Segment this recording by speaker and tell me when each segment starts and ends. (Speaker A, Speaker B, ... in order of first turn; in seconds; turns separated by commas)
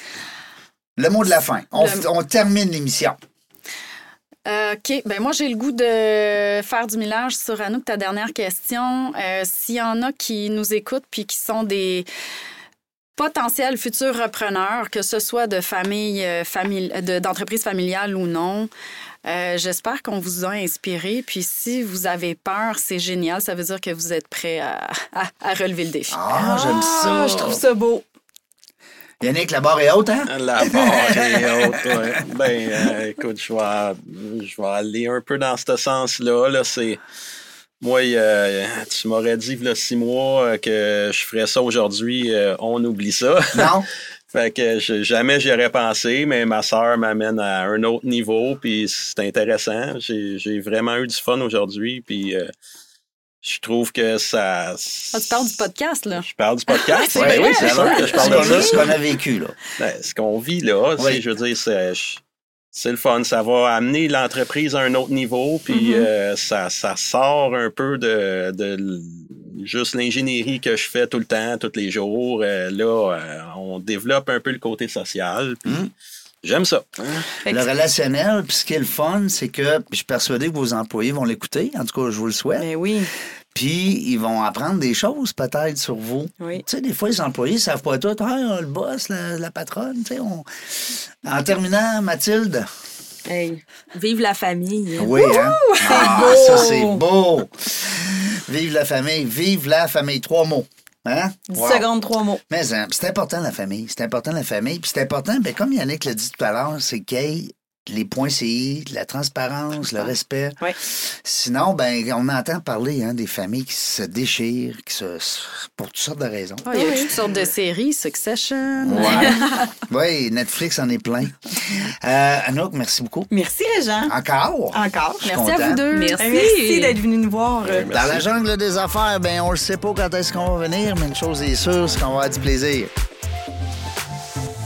Speaker A: 1.0-3.2, Speaker B: 1.8-2.0, Speaker B: 4.5-12.1, Speaker B: 13.2-18.7, Speaker B: 19.3-26.2, Speaker A: 26.1-27.6, Speaker C: 26.3-28.1, Speaker A: 29.2-32.1, Speaker D: 30.3-37.0, Speaker D: 37.8-52.5, Speaker A: 43.5-43.9, Speaker D: 53.4-55.6, Speaker B: 55.1-58.9, Speaker D: 56.1-58.9, Speaker A: 57.1-59.6, Speaker D: 59.8-62.2, Speaker A: 61.0-61.2, Speaker D: 62.7-75.9, Speaker A: 75.7-75.9, Speaker D: 76.4-77.3, Speaker A: 77.5-82.7, Speaker C: 82.6-83.1, Speaker A: 83.5-92.7, Speaker E: 93.3-95.2, Speaker A: 95.0-101.9, Speaker B: 95.1-96.7, Speaker C: 95.8-97.0, Speaker C: 101.5-102.4, Speaker A: 102.5-116.7, Speaker B: 116.7-119.7, Speaker C: 116.7-117.2, Speaker A: 118.8-123.3, Speaker C: 123.3-124.1, Speaker A: 124.1-125.8, Speaker C: 124.7-125.3, Speaker B: 125.2-126.2, Speaker E: 125.9-127.0, Speaker C: 126.2-128.2, Speaker D: 127.6-128.2, Speaker A: 127.9-132.9